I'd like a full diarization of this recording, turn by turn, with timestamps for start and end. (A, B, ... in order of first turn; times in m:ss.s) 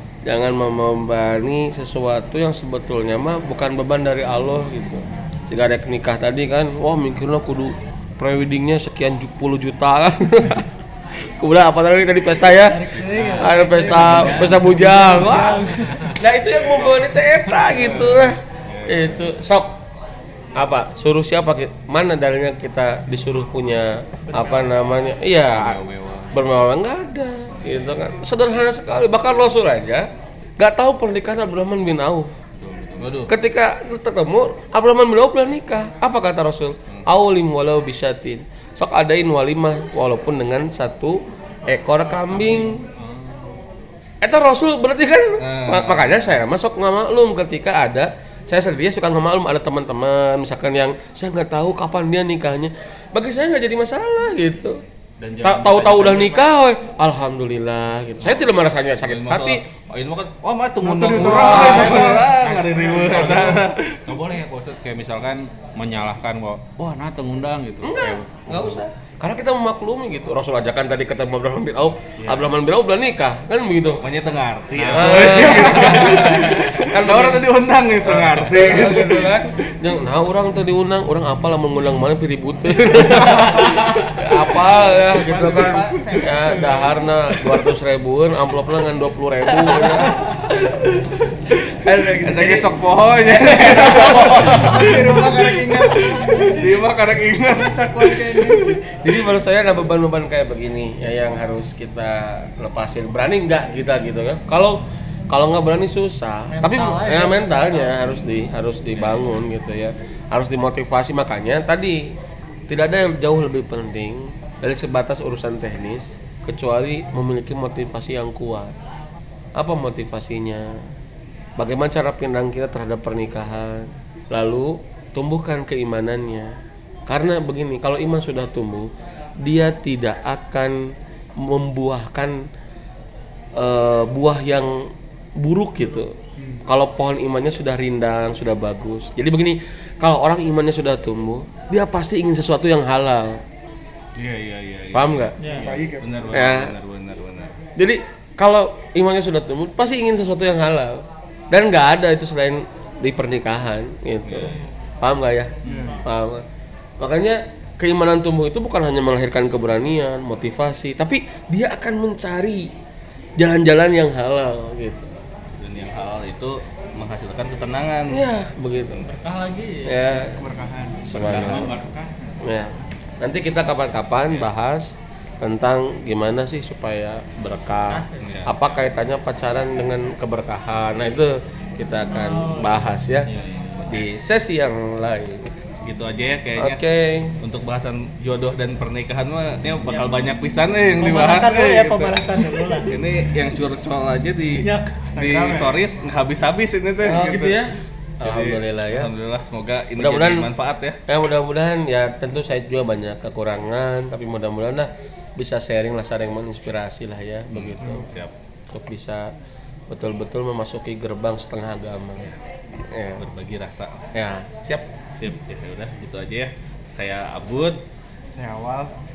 0:00.2-0:10.7 A
0:11.4-0:19.8 A
0:12.5-0:16.1 B
0:14.1-0:14.6 C
0:15.8-0:16.2 C
0:17.7-0:19.3 D
0:20.5-0:32.3 A
0:24.3-0:24.8 B
0:25.5-0:26.4 C
0:32.6-0:33.3 C
0:33.0-0:33.3 D
0:33.3-0:42.8 A
0:42.6-0:43.5 C
0:44.2-0:54.8 A
0:45.4-0:46.4 D
0:55.2-0:56.4 C
0:55.4-0:59.6 A
0:59.0-1:04.0 D
1:00.8-1:03.6 E
1:01.2-1:02.2 A
1:02.4-1:08.8 C
1:07.8-1:14.0 A
1:12.2-1:12.5 C
1:14.0-1:19.7 D
1:14.7-1:16.4 C
1:14.9-1:17.5 A
1:18.0-1:30.9 A
1:24.8-1:27.1 E
1:31.7-1:35.2 A
1:32.2-1:38.8 D
1:34.5-1:36.8 E
1:37.5-1:38.8 E
1:39.0-1:52.0 A
1:46.5-1:48.0 B
1:52.7-1:58.7 A
1:59.6-2:00.8 A
2:01.6-2:06.5 A
2:07.1-2:08.9 A
2:09.4-2:10.8 A
2:11.4-2:12.4 A
2:13.6-2:23.4 A
2:16.4-2:16.6 E
2:24.2-2:27.5 D
2:24.9-2:25.4 A
2:25.4-2:25.7 B
2:25.4-2:26.3 E
2:26.3-2:26.7 A
2:27.8-2:36.4 A
2:34.2-2:34.5 D
2:34.4-2:34.8 B
2:35.6-2:36.0 E
2:35.7-2:36.0 B
2:37.0-2:42.7 A
2:43.4-2:45.1 A
2:45.6-2:48.2 D
2:48.1-2:49.0 A
2:49.0-2:50.2 B
2:49.8-2:50.4 A
2:50.3-2:51.8 E
2:51.0-2:51.8 A
2:51.1-2:51.7 D
2:51.2-2:52.4 C
2:52.4-3:03.3 A
2:57.9-2:58.2 B
2:58.2-2:58.6 D
3:02.1-3:02.9 B
3:03.2-3:04.0 C
3:03.8-3:05.5 A
3:05.8-3:06.8 D
3:06.6-3:07.4 A
3:07.4-3:21.0 D
3:11.0-3:12.9 B
3:14.6-3:15.0 B
3:15.0-3:15.9 E
3:17.0-3:19.1 A
3:20.0-3:20.5 A
3:21.1-3:28.0 A
3:27.5-3:28.3 D
3:27.8-3:28.1 E
3:28.7-3:29.3 A
3:29.9-3:32.3 A
3:32.8-3:33.2 A
3:33.2-3:34.0 D
3:34.1-3:34.8 A
3:35.2-3:37.8 D
3:38.3-3:38.9 E